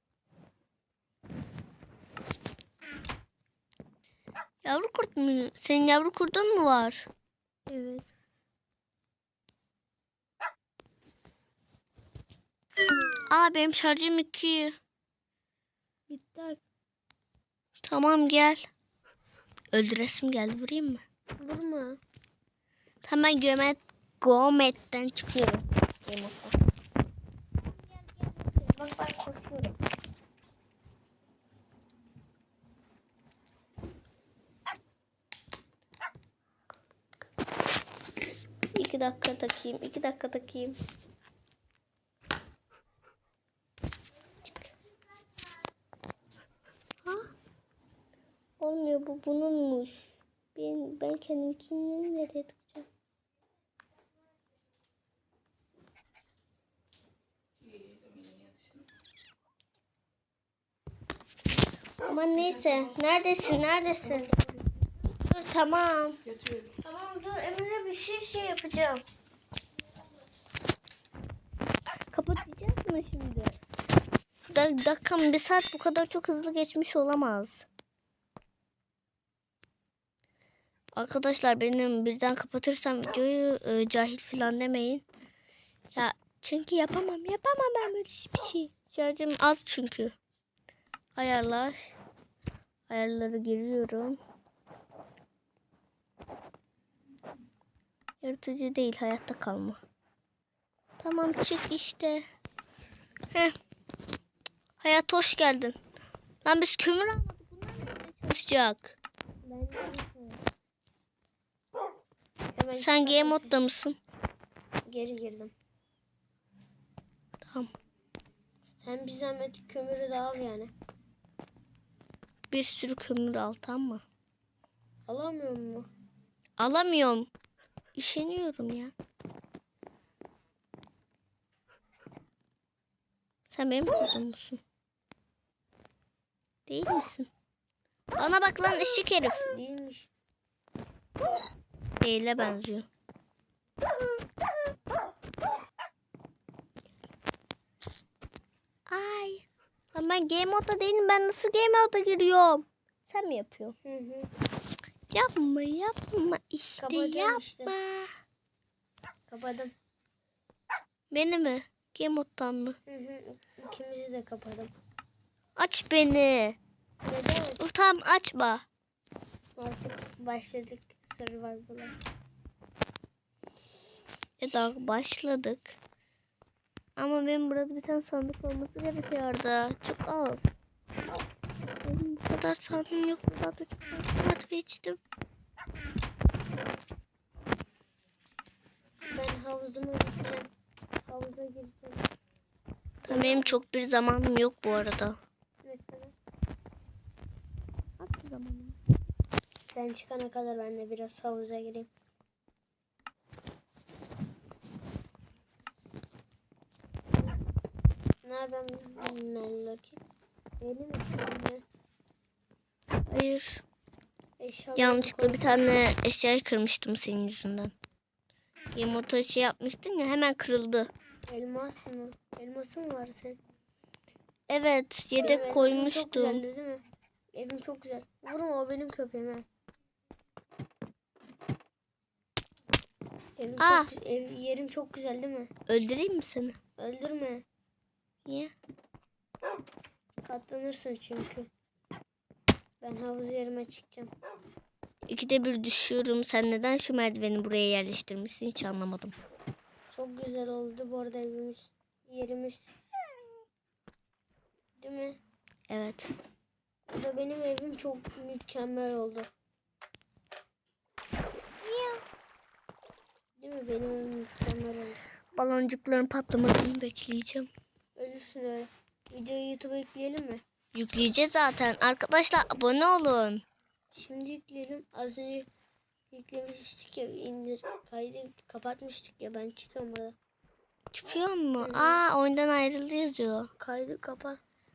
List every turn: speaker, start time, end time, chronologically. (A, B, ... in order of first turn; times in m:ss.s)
0:04.6-0:07.1 A
0:07.7-0:08.1 B
0:13.3-0:14.8 A
0:16.1-0:16.6 B
0:17.8-0:18.6 A
0:19.7-0:21.0 A
0:21.4-0:22.0 B
0:23.0-0:26.5 A
0:28.7-0:29.7 A
0:38.7-0:40.8 A
0:48.6-0:52.8 A
1:02.1-1:04.4 A
1:05.3-1:09.0 A
1:12.1-1:13.5 A
1:14.5-1:17.7 A
1:20.9-1:25.0 A
1:25.9-1:30.1 A
1:31.2-1:31.8 A
1:32.9-1:34.2 A
1:38.2-1:39.8 A
1:41.0-1:42.2 A
1:44.8-1:45.8 A
1:46.4-1:49.0 A
1:49.4-1:50.4 B
1:52.5-1:53.5 B
1:52.8-1:54.0 A
1:54.8-1:55.5 B
1:57.4-1:57.7 A
1:58.8-2:00.7 B
2:02.5-2:04.0 A
2:05.1-2:05.9 B
2:06.6-2:07.3 A
2:07.9-2:08.9 A
2:13.5-2:14.6 A
2:16.7-2:17.3 A
2:18.2-2:19.5 A
2:19.5-2:20.1 B
2:22.0-2:22.9 A
2:28.9-2:33.8 A
2:33.8-2:34.3 B
2:35.1-2:38.1 A
2:36.8-2:37.7 B
2:39.3-2:39.7 B
2:41.1-2:42.8 A
2:42.9-2:44.7 B
2:45.6-2:46.6 A
2:47.0-2:47.6 B
2:47.6-2:48.6 A
2:49.6-2:51.9 B
2:54.4-2:55.8 A
2:57.0-3:00.5 A
3:01.8-3:05.0 A
3:09.1-3:10.5 B
3:11.0-3:12.0 B
3:13.0-3:15.2 A
3:13.1-3:13.6 B
3:15.6-3:16.1 B
3:18.0-3:18.8 A
3:19.7-3:21.9 B
3:28.2-3:30.0 B
3:30.6-3:31.6 B
3:33.1-3:33.6 A
3:34.4-3:35.7 B
3:34.8-3:37.7 A
3:38.7-3:40.9 A
3:41.3-3:43.4 B
3:44.5-3:46.4 A
3:45.2-3:49.4 B
3:53.4-3:55.5 B
3:53.6-3:53.9 A
3:55.7-3:56.6 A
3:56.8-3:57.4 B
3:58.2-3:58.5 A
4:00.2-4:01.5 B
4:02.8-4:04.1 B
4:05.1-4:09.2 A
4:09.9-4:12.7 B
4:14.8-4:15.2 B
4:15.7-4:16.1 A
4:16.9-4:19.3 B
4:21.6-4:22.0 A
4:23.4-4:25.0 B
4:25.3-4:27.5 A
4:28.0-4:30.4 B
4:30.7-4:33.4 A
4:33.9-4:35.5 B
4:36.1-4:40.1 B
4:40.9-4:43.5 A
4:41.6-4:42.0 B
4:43.6-4:44.4 B